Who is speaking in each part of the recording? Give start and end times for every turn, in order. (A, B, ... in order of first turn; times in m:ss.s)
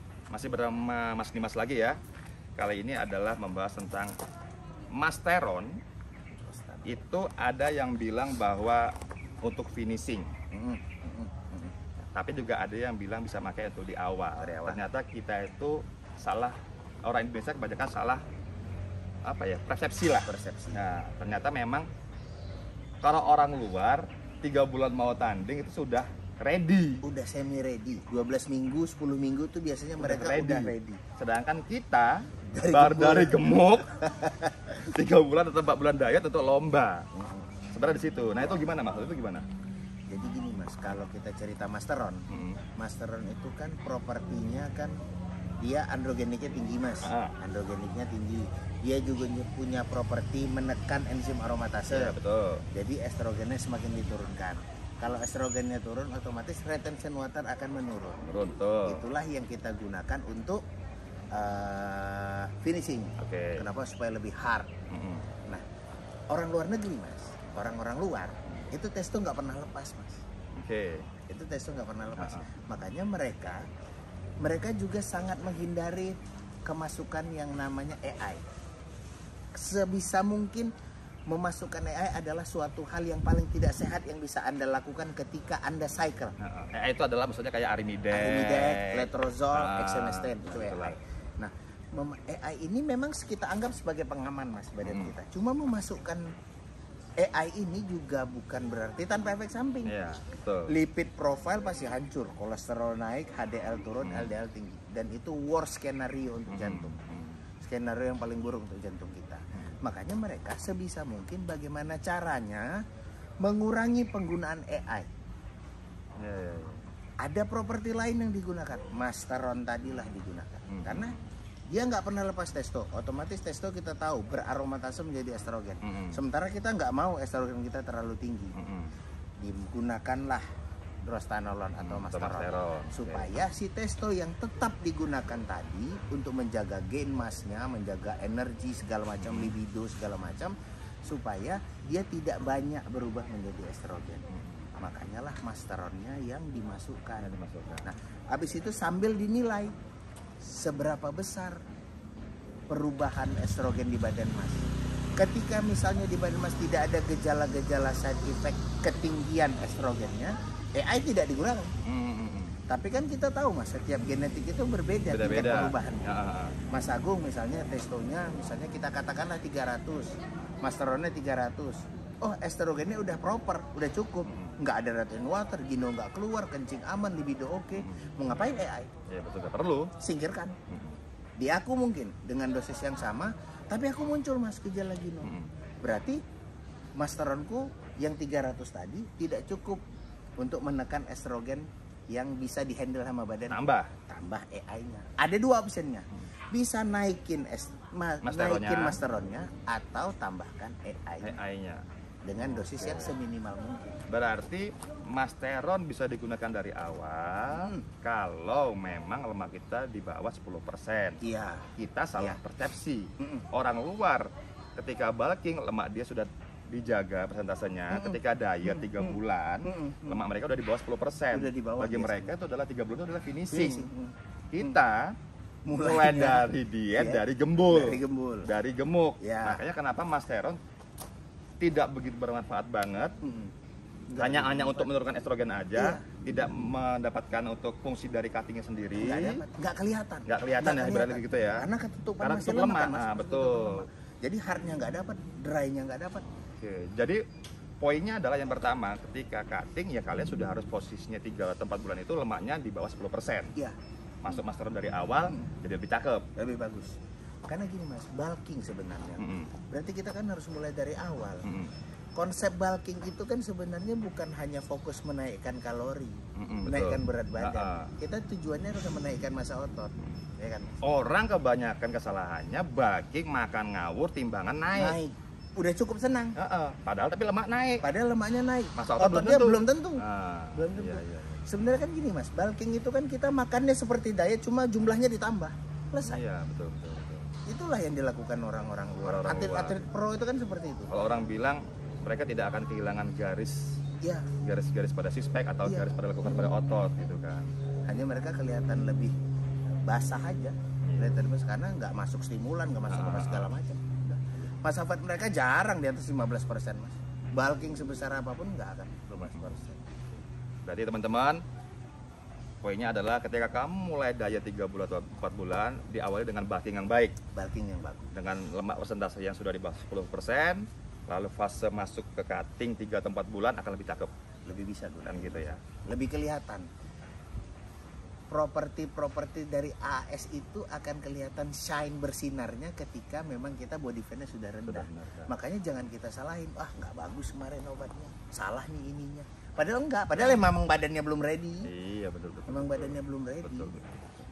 0:00.3-0:02.0 A
0:02.6-0:04.2 A
0:04.9-0:05.8 A
0:06.3-0:07.0 B
0:06.8-0:10.3 A
0:10.5-0:11.7 B
0:12.1-0:18.2 A
0:14.4-0:14.8 B
0:19.3-0:21.9 A
0:20.2-0:20.8 B
0:23.0-0:27.0 A
0:27.0-0:31.0 B
0:30.0-0:33.9 A
0:32.5-0:34.9 B
0:34.8-0:37.0 A
0:37.1-0:37.5 B
0:37.7-0:39.4 A
0:40.1-0:42.3 B
0:42.3-0:42.6 A
0:42.8-0:45.0 B
0:45.6-0:52.2 B
0:47.0-0:47.4 A
0:51.9-0:52.6 A
0:52.7-0:58.2 B
0:58.2-0:59.0 A
0:58.8-1:00.6 B
1:01.3-1:04.7 B
1:03.2-1:03.7 A
1:04.9-1:05.3 A
1:06.3-1:10.2 B
1:10.5-1:11.1 A
1:11.3-1:13.6 B
1:12.2-1:12.5 A
1:14.4-1:18.5 B
1:19.5-1:20.7 B
1:21.3-1:26.4 B
1:26.4-1:31.0 A
1:28.1-1:36.3 B
1:34.8-1:35.1 A
1:37.2-1:40.0 B
1:39.8-1:40.7 A
1:40.7-1:47.0 B
1:44.0-1:44.4 A
1:46.5-1:47.4 A
1:47.6-1:52.7 B
1:53.4-1:55.1 B
1:56.2-1:56.9 A
1:57.2-2:01.1 B
2:00.7-2:01.2 A
2:01.7-2:08.5 B
2:05.8-2:06.2 A
2:08.5-2:08.9 A
2:09.4-2:10.4 B
2:11.0-2:20.5 B
2:11.8-2:13.3 A
2:19.2-2:19.6 A
2:21.0-2:24.2 B
2:24.3-2:24.7 A
2:24.8-2:29.7 B
2:27.2-2:27.9 A
2:30.4-2:31.6 B
2:32.7-2:34.6 B
2:35.2-2:41.7 B
2:41.8-2:42.6 A
2:42.7-2:46.1 B
2:45.1-2:46.6 A
2:46.7-2:58.9 B
2:54.3-2:54.6 A
2:59.1-2:59.9 A
3:00.0-3:00.6 B
3:00.7-3:01.0 A
3:01.4-3:05.3 B
3:05.2-3:05.5 A
3:05.8-3:06.2 B
3:07.0-3:09.8 B
3:10.4-3:21.4 B
3:13.5-3:13.9 A
3:18.2-3:19.0 A
3:21.2-3:21.8 A
3:22.2-3:24.0 B
3:22.4-3:23.1 A
3:24.1-3:31.2 A
3:27.5-3:27.8 B
3:31.2-3:31.7 B
3:31.8-3:43.9 A
3:33.2-3:33.4 B
3:37.9-3:40.2 B
3:41.3-3:42.3 B
3:43.5-3:44.8 B
3:44.5-3:45.2 A
3:45.7-3:48.5 B
3:45.7-3:50.6 A
3:49.2-3:49.6 B
3:51.6-3:53.1 A
3:53.2-3:53.5 B
3:54.1-3:54.9 B
3:54.1-3:59.4 A
3:55.8-3:56.1 B
3:59.0-4:06.2 B
4:00.3-4:01.7 A
4:02.2-4:03.8 A
4:06.6-4:07.2 A
4:07.8-4:13.5 A
4:14.2-4:16.2 A
4:15.2-4:15.5 B
4:16.4-4:17.0 B
4:17.5-4:21.5 B
4:19.2-4:19.5 A
4:21.4-4:21.7 A
4:22.2-4:30.8 B
4:26.4-4:27.9 A
4:30.8-4:35.0 A
4:34.7-4:36.4 B
4:36.4-4:37.8 A
4:37.8-4:46.2 B
4:38.8-4:41.4 A
4:46.0-4:47.3 A
4:47.5-4:50.9 B
4:49.0-4:49.8 A
4:50.9-4:53.8 A
4:54.0-4:54.3 B
4:54.4-4:57.5 A
4:55.6-4:56.0 B
4:57.9-4:59.1 B
4:59.8-5:10.0 B
5:00.8-5:01.2 A
5:02.9-5:03.5 A
5:09.2-5:09.5 A
5:10.6-5:11.4 A
5:12.6-5:17.2 A
5:17.3-5:18.1 B
5:18.1-5:24.1 A
5:24.5-5:26.7 B
5:25.0-5:25.6 A
5:28.3-5:41.7 B
5:34.7-5:35.3 A
5:40.1-5:40.5 A
5:41.6-5:44.0 A
5:42.5-5:43.8 B